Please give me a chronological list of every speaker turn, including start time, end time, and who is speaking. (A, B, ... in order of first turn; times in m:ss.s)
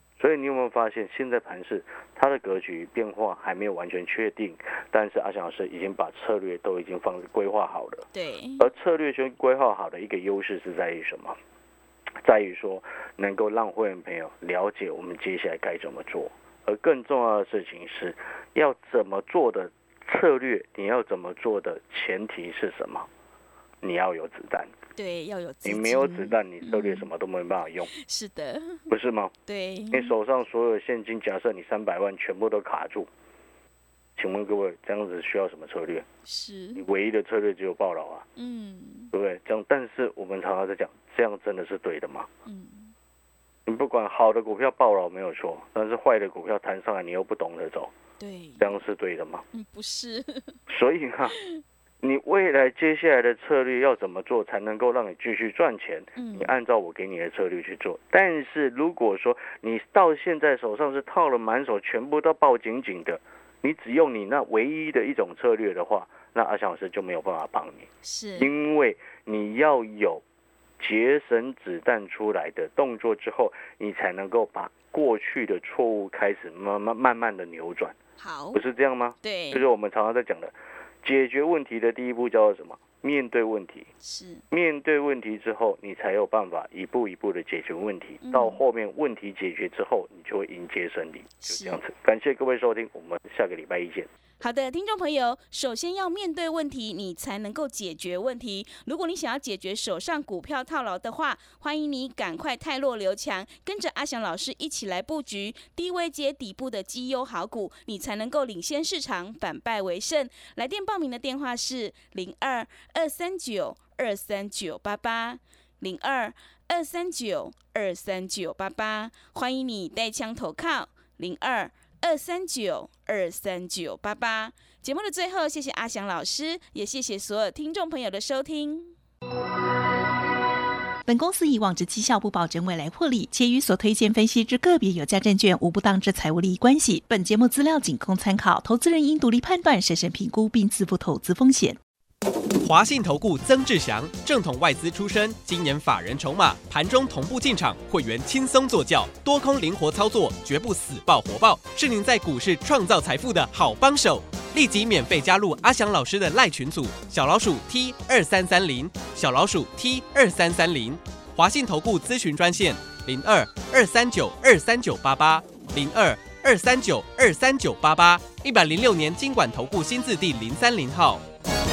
0:00.2-0:08.1 A
0:08.1-0:08.7 B
0:08.6-0:11.4 A
0:12.2-0:23.1 A
0:23.8-0:24.7 A
0:25.0-0:27.1 B
0:25.6-0:27.9 A
0:27.9-0:28.9 B
0:28.9-0:29.3 A
0:29.4-0:30.1 B
0:29.9-0:33.1 A
0:34.2-0:36.0 A
0:36.2-0:36.8 B
0:36.8-0:38.2 A
0:38.4-0:39.1 B
0:39.1-0:42.3 A
0:42.4-0:42.9 B
0:43.6-0:47.9 A
0:48.2-0:48.7 B
0:48.6-0:49.4 A
0:49.5-0:50.6 B
0:50.7-0:51.4 A
0:51.3-0:51.6 B
0:52.0-1:10.2 A
0:56.2-0:56.5 B
1:08.0-1:08.5 B
1:10.8-1:17.9 A
1:18.2-1:18.6 B
1:18.5-1:23.9 A
1:19.2-1:19.6 B
1:24.0-1:24.4 B
1:24.5-1:34.1 A
1:28.2-1:28.6 B
1:31.4-1:31.8 B
1:34.4-2:08.9 B
2:11.0-2:21.8 C
2:22.6-2:51.2 D